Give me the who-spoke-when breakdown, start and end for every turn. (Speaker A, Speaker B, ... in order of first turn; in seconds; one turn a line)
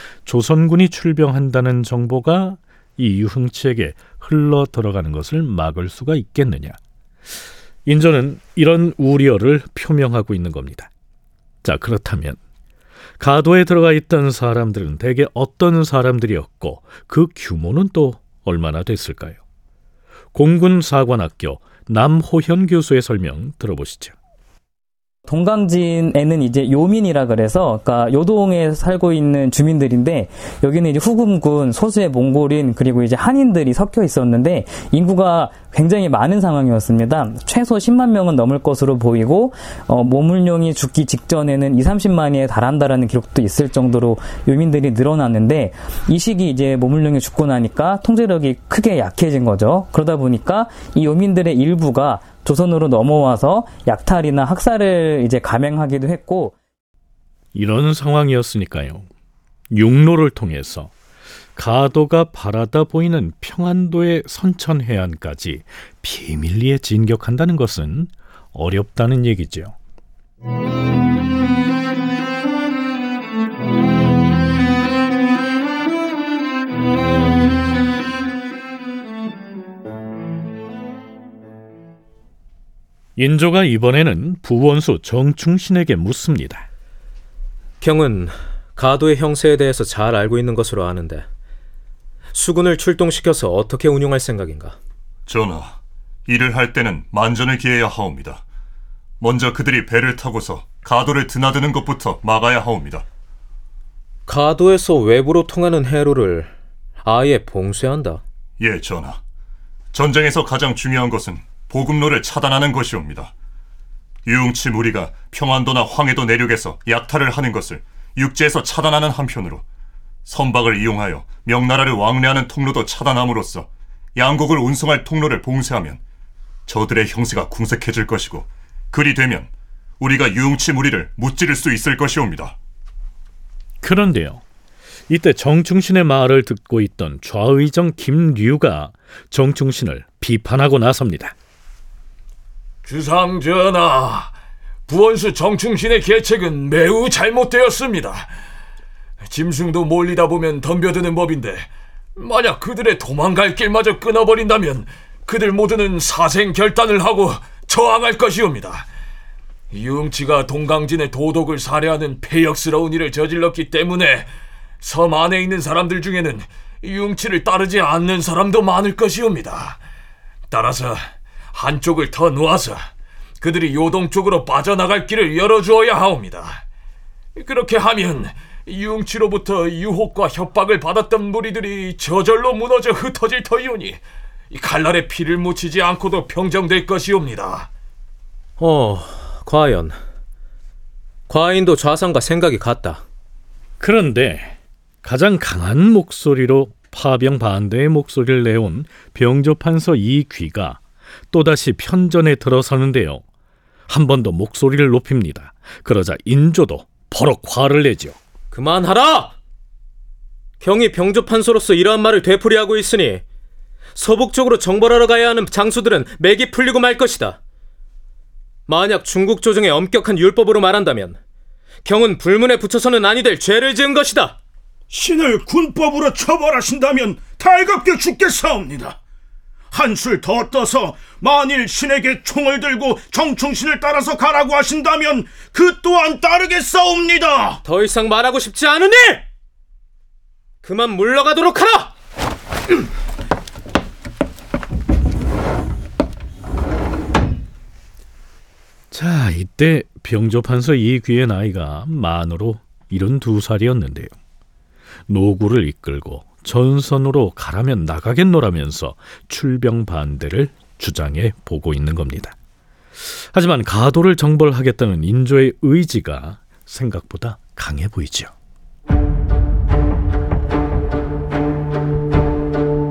Speaker A: 0.2-6.8
Speaker A: 7.8-10.9
Speaker A: 11.6-12.4
Speaker A: 13.2-19.4
Speaker A: 20.3-24.1
Speaker B: 25.3-56.5
Speaker A: 57.5-59.1
Speaker A: 59.7-60.9
Speaker A: 61.5-69.7
Speaker A: 83.2-86.6
Speaker C: 87.8-91.2
Speaker C: 92.3-94.8
Speaker D: 95.2-98.4
Speaker D: 99.2-103.0
Speaker C: 104.3-106.5
Speaker C: 107.0-108.2
Speaker D: 108.6-109.2
Speaker D: 109.9-113.3
Speaker D: 114.2-119.6
Speaker D: 120.2-126.0
Speaker D: 126.7-132.6
Speaker A: 133.8-134.4
Speaker A: 135.1-141.3
Speaker E: 142.8-144.3
Speaker E: 144.9-148.3
Speaker E: 149.2-158.9
Speaker E: 159.7-169.8
Speaker E: 170.5-176.6
Speaker E: 177.3-187.7
Speaker C: 188.6-190.0
Speaker C: 191.3-193.0
Speaker A: 193.8-203.2
Speaker A: 203.9-208.2
Speaker C: 208.5-209.3
Speaker C: 210.6-213.2
Speaker C: 213.9-217.4
Speaker C: 218.7-221.2
Speaker C: 221.8-224.3
Speaker F: 224.9-229.0
Speaker F: 229.7-237.6
Speaker C: 237.6-239.2
Speaker C: 240.6-241.9
Speaker A: 248.9-254.1
Speaker A: 255.1-262.3
Speaker A: 263.1-268.3